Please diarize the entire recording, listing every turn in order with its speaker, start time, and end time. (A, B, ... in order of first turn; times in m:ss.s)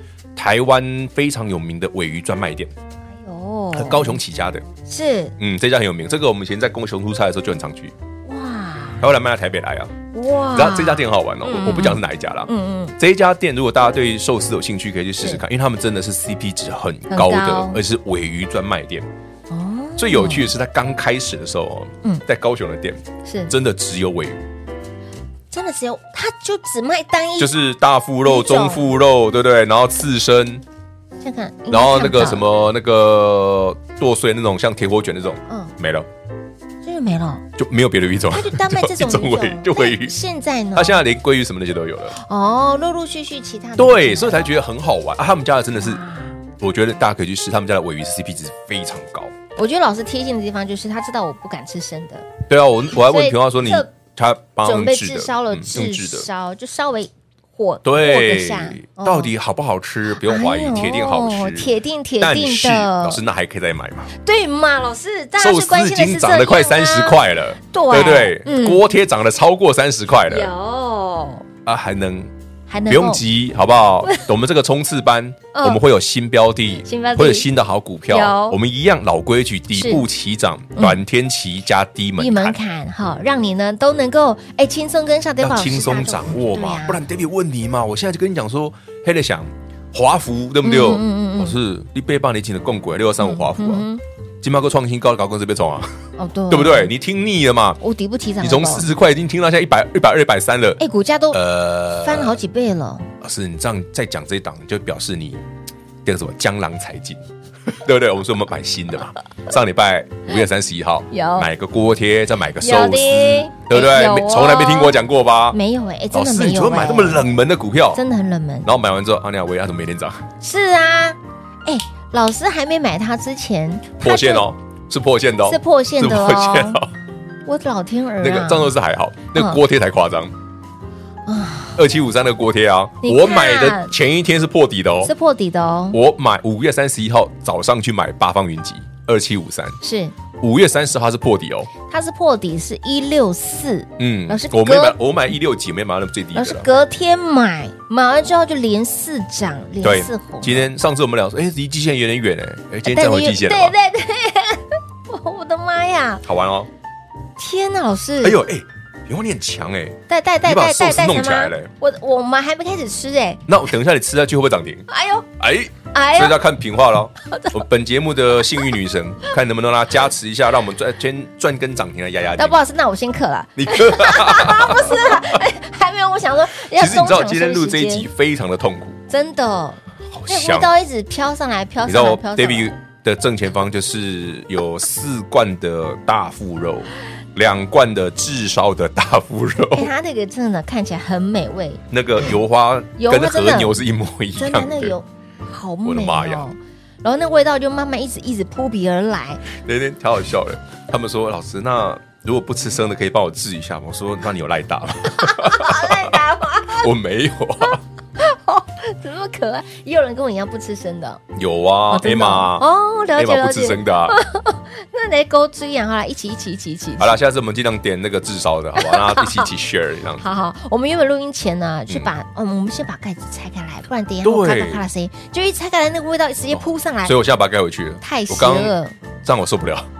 0:00.4-0:02.7 A
0:03.1-0:04.2 B
0:03.7-0:04.6 A
0:04.9-0:05.3 B
0:05.4-0:07.9 A
0:08.2-0:09.0 B
0:09.0-0:09.9 A
0:10.1-0:12.9 B
0:10.5-0:19.1 A
0:17.1-0:17.8 B
0:19.5-0:20.5 B
0:20.0-0:24.4 A
0:23.2-0:23.5 B
0:25.5-0:27.5 B
0:27.4-0:30.6 A
0:28.2-0:28.9 B
0:31.2-0:32.4 B
0:31.7-0:36.1 A
0:35.5-0:35.7 B
0:36.8-0:37.4 B
0:37.6-0:40.2 A
0:38.3-0:41.0 B
0:40.7-0:42.2 A
0:42.1-0:44.5 B
0:43.8-0:46.0 A
0:45.8-0:46.4 B
0:46.6-0:49.3 A
0:49.6-0:52.3 B
0:52.5-0:56.3 A
0:52.9-0:53.9 B
0:54.6-0:59.3 B
0:57.8-1:04.1 A
1:00.2-1:03.2 B
1:04.1-1:08.8 B
1:05.4-1:10.5 A
1:10.3-1:11.4 B
1:11.6-1:12.3 A
1:12.7-1:13.2 B
1:12.9-1:22.6 A
1:15.5-1:15.8 B
1:16.8-1:17.5 B
1:18.1-1:18.6 B
1:19.7-1:20.0 B
1:20.8-1:21.0 B
1:22.2-1:27.0 B
1:25.4-1:33.8 A
1:30.6-1:31.6 B
1:33.2-1:34.0 B
1:34.4-1:36.0 A
1:36.2-1:36.9 B
1:36.5-1:37.8 A
1:37.8-1:38.9 B
1:38.4-1:40.8 A
1:40.8-1:43.1 B
1:41.3-1:42.4 A
1:43.2-1:45.4 A
1:46.0-1:55.6 A
1:51.1-1:51.5 B
1:52.6-1:55.0 B
1:55.5-1:57.3 B
1:56.1-1:58.0 A
1:57.9-1:58.7 B
1:58.6-2:00.3 A
2:00.4-2:04.4 B
2:04.0-2:06.9 A
2:05.4-2:06.8 B
2:07.4-2:08.7 B
2:08.2-2:10.3 A
2:09.3-2:09.6 B
2:11.3-2:11.8 B
2:11.8-2:15.1 A
2:13.0-2:13.9 B
2:15.0-2:16.0 B
2:15.9-2:19.8 A
2:19.8-2:20.1 B
2:20.4-2:21.7 A
2:21.9-2:25.0 B
2:24.0-2:26.7 A
2:26.3-2:30.7 B
2:29.8-2:33.7 A
2:32.8-2:36.2 B
2:36.2-2:36.7 A
2:37.4-2:38.4 B
2:38.2-2:41.7 A
2:40.1-2:43.4 B
2:43.5-2:44.9 A
2:44.9-2:45.3 B
2:45.4-2:52.6 A
2:45.9-2:46.4 B
2:47.2-2:47.6 B
2:52.4-2:58.1 B
2:53.6-2:55.4 A
2:56.7-2:59.0 A
2:59.1-3:02.7 B
3:00.1-3:00.7 A
3:01.8-3:09.9 A
3:09.7-3:11.8 B
3:11.9-3:15.0 A
3:13.0-3:13.8 B
3:14.4-3:19.4 B
3:15.8-3:16.5 A
3:19.5-3:27.8 A
3:25.1-3:26.9 B
3:27.6-3:31.2 B
3:31.3-3:34.2 A
3:31.9-3:37.2 B
3:37.0-3:40.2 A
3:38.8-3:39.5 B
3:40.2-3:47.2 B
3:41.9-3:42.1 A
3:44.2-3:44.8 A
3:46.5-3:49.9 A
3:48.0-3:49.0 B